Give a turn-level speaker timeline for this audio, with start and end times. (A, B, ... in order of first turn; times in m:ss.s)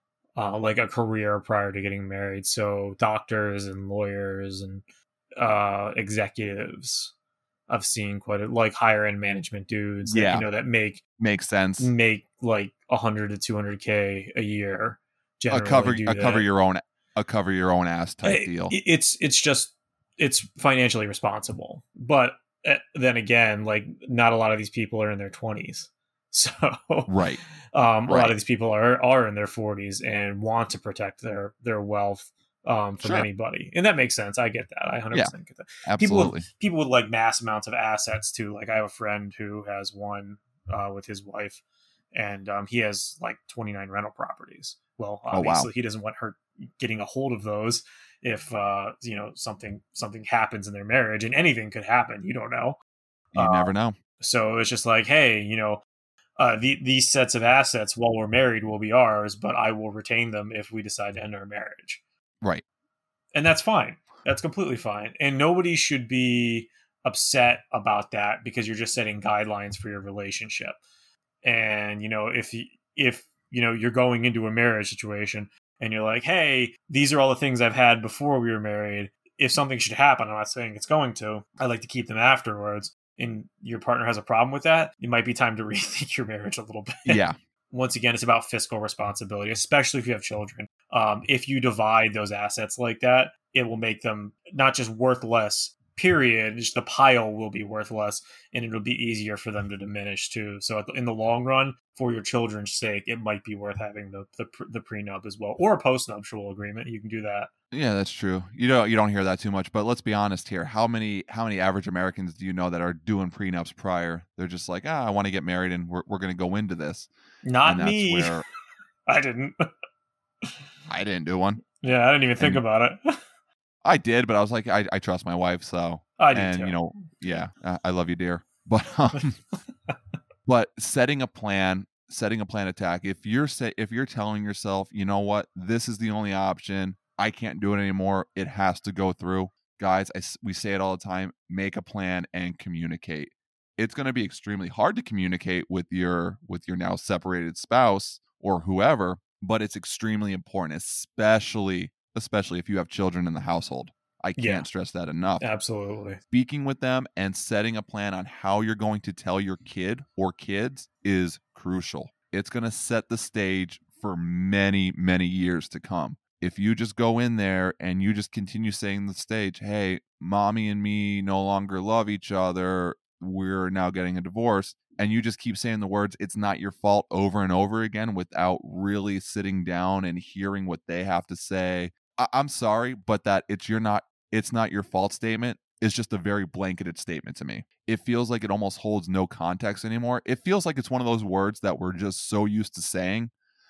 0:00.4-0:04.8 A
0:05.4-0:07.1 A
0:07.7-0:11.0 A
0:10.0-0:10.5 B
0:11.2-0:11.9 B
0:11.8-0:16.5 A
0:15.5-0:18.8 B
0:18.2-0:27.2 A
0:27.1-0:27.4 B
0:27.7-0:41.6 A
0:28.1-0:28.3 B
0:33.0-0:33.3 B
0:35.8-0:36.5 B
0:42.1-0:52.8 A
0:45.3-0:45.7 B
0:53.3-0:54.0 B
0:53.4-0:55.8 A
0:56.4-1:02.0 A
1:03.4-1:10.8 A
1:11.4-1:47.5 A
1:27.1-1:27.4 B
1:47.7-1:57.1 B
1:57.4-1:58.4 A
1:57.6-1:58.4 B
1:59.1-1:59.7 A
2:00.9-2:01.6 B
2:01.8-2:03.2 A
2:03.8-2:09.4 B
2:06.2-2:06.8 A
2:10.5-2:35.5 B
2:34.4-2:34.7 A
2:35.4-2:36.2 A
2:36.3-3:13.3 B